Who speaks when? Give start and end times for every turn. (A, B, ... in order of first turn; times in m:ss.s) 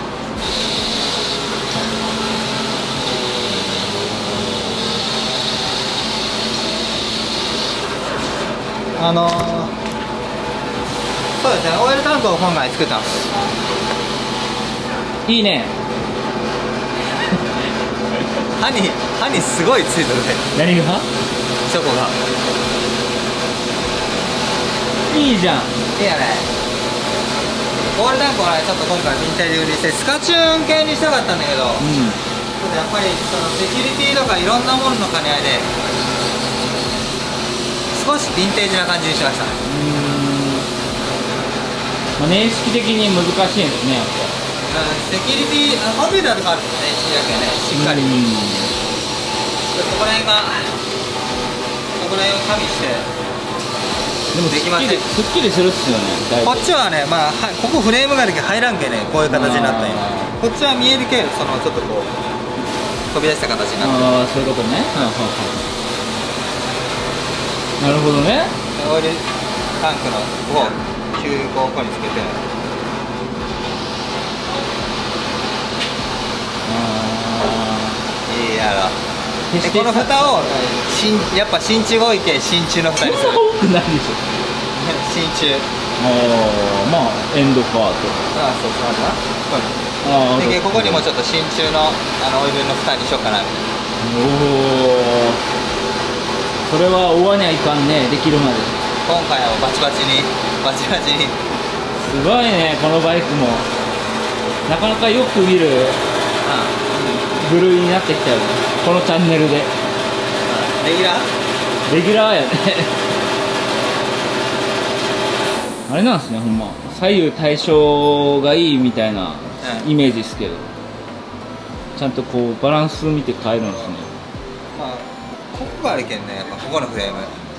0:09.0-0:09.8 A
0:11.4-0:13.3 A
0:15.2-0:15.7 B
0:18.6-0:20.5 A
0:20.5-0:21.1 B
0:21.6-0:22.2 A
0:25.1-0:25.8 B
0:25.9-0:26.5 A
0:27.9-0:35.7 A
0:31.8-0:32.2 B
0:37.9-0:39.6 A
0:39.6-0:40.7 B
0:42.2-0:44.4 B
0:44.7-0:48.2 A
0:47.7-0:48.7 B
0:49.7-0:50.8 A
0:52.0-0:53.1 A
0:54.3-0:56.7 B
0:54.5-0:55.1 A
0:56.4-1:02.1 A
0:59.3-1:00.3 B
1:03.1-1:04.1 A
1:03.8-1:05.7 B
1:07.8-1:08.6 B
1:08.7-1:12.4 A
1:16.6-1:18.0 B
1:18.2-1:19.0 A
1:19.5-1:20.5 B
1:19.6-1:23.4 A
1:23.0-1:24.3 B
1:24.7-1:25.7 A
1:26.0-1:28.2 B
1:28.3-1:33.7 A
1:30.0-1:31.0 B
1:34.0-1:35.4 B
1:36.6-1:38.8 B
1:39.0-1:41.4 A
1:42.0-1:43.7 B
1:44.7-1:46.0 B
1:46.4-1:47.2 A
1:47.3-1:49.7 B
1:50.5-1:51.3 A
1:51.8-1:53.1 B
1:55.9-2:00.7 B
1:59.6-1:59.9 A
2:01.9-2:04.1 B
2:04.7-2:07.4 A